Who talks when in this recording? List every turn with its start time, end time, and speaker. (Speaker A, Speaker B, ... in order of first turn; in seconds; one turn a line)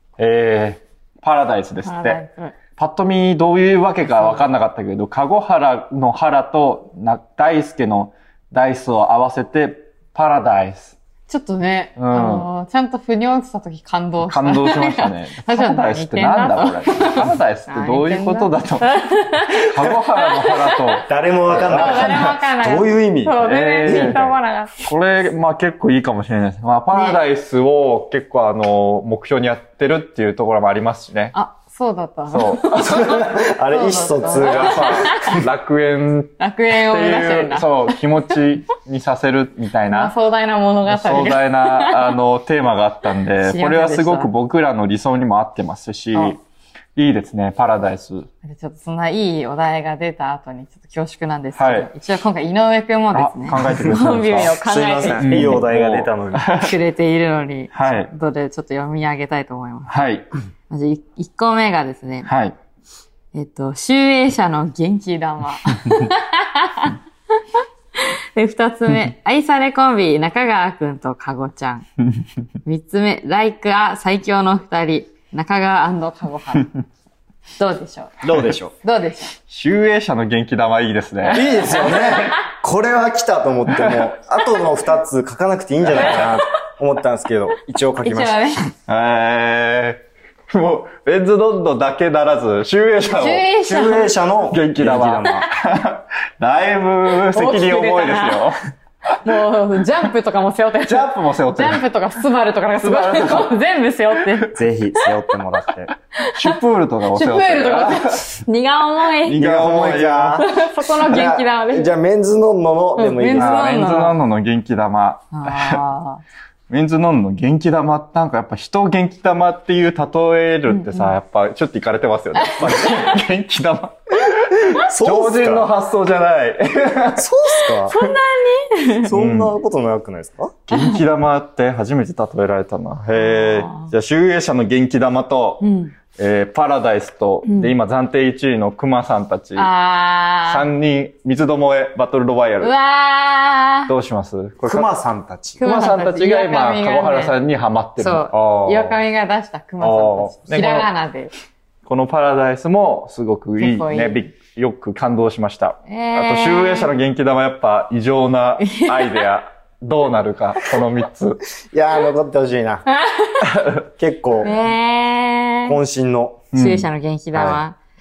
Speaker A: 0.2-2.2
Speaker B: 1.8-2.5
Speaker A: 2.8-10.9
Speaker B: 4.0-4.5
Speaker B: 11.3-24.8
Speaker A: 12.0-12.5
Speaker A: 14.2-18.9
Speaker A: 19.5-22.4
Speaker C: 21.1-24.4
Speaker A: 23.4-31.3
Speaker B: 26.9-27.2
Speaker B: 31.3-35.3
Speaker A: 32.3-32.9
Speaker C: 32.7-35.5
Speaker A: 34.4-40.1
Speaker B: 36.4-38.0
Speaker B: 39.9-42.1
Speaker A: 40.9-46.4
Speaker B: 43.4-44.3
Speaker A: 47.0-48.3
Speaker B: 48.4-55.6
Speaker A: 51.5-51.9
Speaker A: 53.1-54.5
Speaker C: 54.4-56.5
Speaker A: 55.2-56.7
Speaker B: 56.5-59.9
Speaker A: 57.7-58.1
Speaker A: 59.9-60.3
Speaker B: 60.7-62.3
Speaker A: 62.3-62.6
Speaker B: 63.3-67.0
Speaker B: 68.0-71.9
Speaker B: 72.7-76.7
Speaker B: 77.6-78.2
Speaker C: 78.2-78.8
Speaker B: 78.8-79.4
Speaker A: 79.5-82.0
Speaker B: 81.3-82.4
Speaker C: 81.3-88.5
Speaker A: 85.9-86.3
Speaker B: 88.0-88.6
Speaker A: 88.9-93.5
Speaker B: 93.1-94.1
Speaker C: 93.6-95.5
Speaker A: 94.5-98.6
Speaker B: 97.3-98.5
Speaker B: 99.2-104.6
Speaker A: 100.9-101.8
Speaker A: 102.8-103.6
Speaker A: 104.3-104.5
Speaker C: 104.6-106.0
Speaker B: 106.2-106.6
Speaker A: 106.3-108.3
Speaker B: 107.1-109.5
Speaker A: 109.2-110.5
Speaker C: 109.4-113.7
Speaker B: 110.4-111.9
Speaker B: 113.0-114.2
Speaker A: 113.4-115.8
Speaker B: 115.3-116.2
Speaker A: 116.7-127.3
Speaker B: 120.7-121.1
Speaker B: 122.3-123.2
Speaker C: 124.7-125.7
Speaker C: 127.2-128.0
Speaker B: 127.8-129.1
Speaker A: 127.9-128.1
Speaker C: 129.1-130.6
Speaker A: 129.1-129.5
Speaker A: 130.7-135.6
Speaker B: 130.7-131.0
Speaker B: 133.1-133.9
Speaker B: 135.6-135.9
Speaker A: 136.2-139.7
Speaker B: 137.4-137.7
Speaker B: 139.6-140.7
Speaker A: 140.5-142.7
Speaker B: 142.6-143.9
Speaker A: 143.9-144.9
Speaker C: 144.7-145.6
Speaker B: 145.6-147.4
Speaker A: 145.6-148.3
Speaker B: 148.0-151.3
Speaker C: 148.3-149.0
Speaker C: 149.8-150.4
Speaker A: 150.5-150.9
Speaker A: 151.9-161.4
Speaker B: 153.6-154.2
Speaker B: 155.9-156.9
Speaker B: 158.6-159.1
Speaker C: 161.7-162.8
Speaker B: 163.0-163.4
Speaker A: 163.5-163.8
Speaker C: 164.0-164.6
Speaker B: 164.4-165.8
Speaker C: 165.7-166.5
Speaker A: 166.5-166.9
Speaker B: 166.5-167.8